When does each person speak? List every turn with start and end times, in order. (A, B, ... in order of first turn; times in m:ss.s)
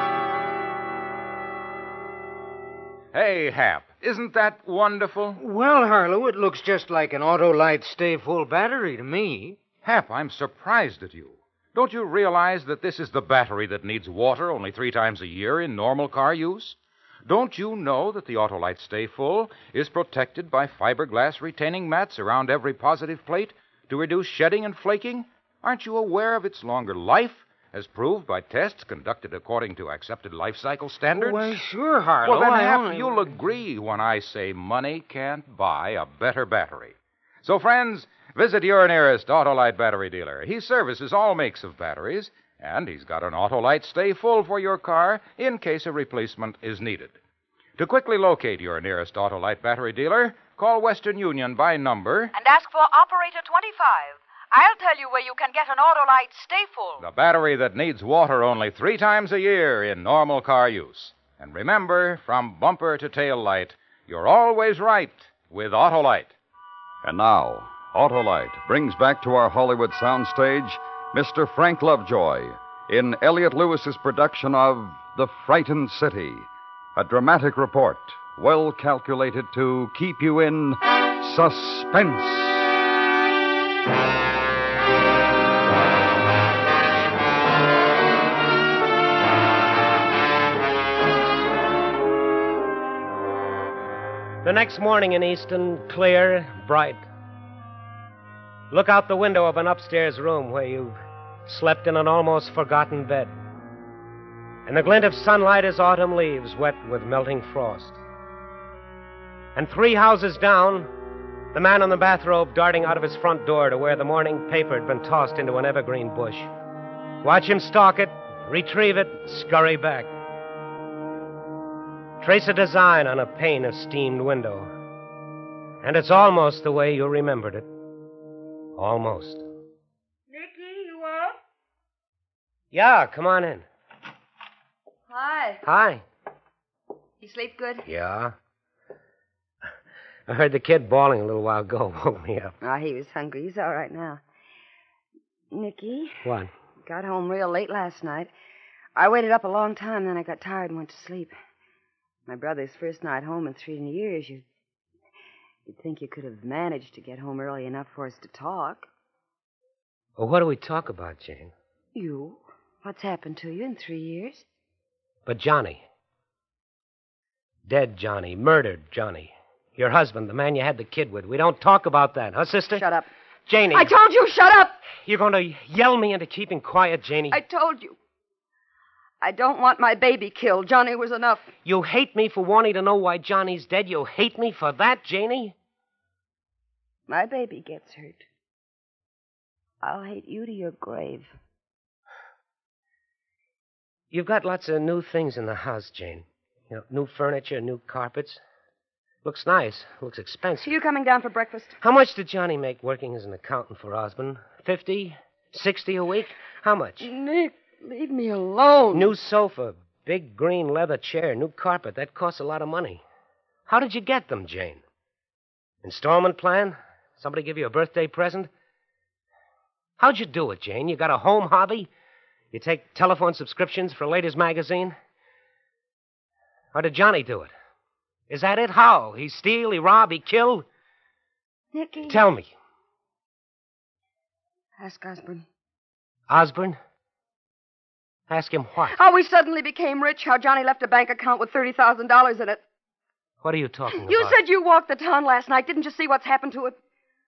0:03.1-0:05.4 A
0:05.4-0:09.6 B
0:09.8-0:31.6 A
0:31.1-0:33.5 B
0:32.2-0:47.2 A
0:47.8-0:52.3 A
0:52.3-0:57.0 C
0:57.0-1:06.3 A
1:07.0-1:22.7 D
1:34.4-1:37.0 E
1:38.7-1:43.3 E
1:44.7-1:48.0 E
1:49.5-1:50.9 E
1:51.5-1:56.5 E
1:57.2-2:00.1 E
2:02.2-2:04.7 E
2:05.8-2:07.7 E
2:08.8-2:09.4 E
2:10.3-2:11.3 F
2:12.7-2:13.7 E
2:15.1-2:15.6 F
2:15.6-2:16.0 E
2:17.2-2:17.8 F
2:17.8-2:18.3 E
2:20.3-2:22.5 E
2:22.6-2:24.2 F
2:25.5-2:26.2 F
2:26.2-2:26.5 E
2:26.8-2:28.3 F
2:29.0-2:31.3 F
2:32.3-2:34.4 F
2:35.7-2:38.9 F
2:40.2-2:41.5 E
2:41.9-2:44.4 F
2:45.2-2:45.8 E
2:47.7-2:52.8 E
2:52.8-2:53.1 F
2:53.5-2:53.9 E
2:53.7-2:54.8 F
2:55.0-2:57.4 E
2:57.3-2:58.0 F
2:59.2-3:01.5 F
3:01.6-3:05.5 E
3:07.1-3:08.2 F
3:09.8-3:11.3 F
3:14.1-3:18.4 E
3:19.2-3:20.7 E
3:20.6-3:21.8 F
3:21.8-3:27.1 E
3:27.0-3:29.2 F
3:28.9-3:33.0 E
3:33.7-3:34.8 E
3:35.8-3:38.5 E
3:40.0-3:41.9 E
3:42.5-3:45.0 E
3:46.7-3:47.5 E
3:48.3-3:50.7 E
3:51.7-3:52.2 F
3:52.1-3:52.5 E
3:54.8-3:55.5 F
3:56.3-3:56.8 E
3:58.3-3:59.0 E
3:58.9-4:02.6 F
4:03.4-4:04.4 E
4:04.0-4:06.8 F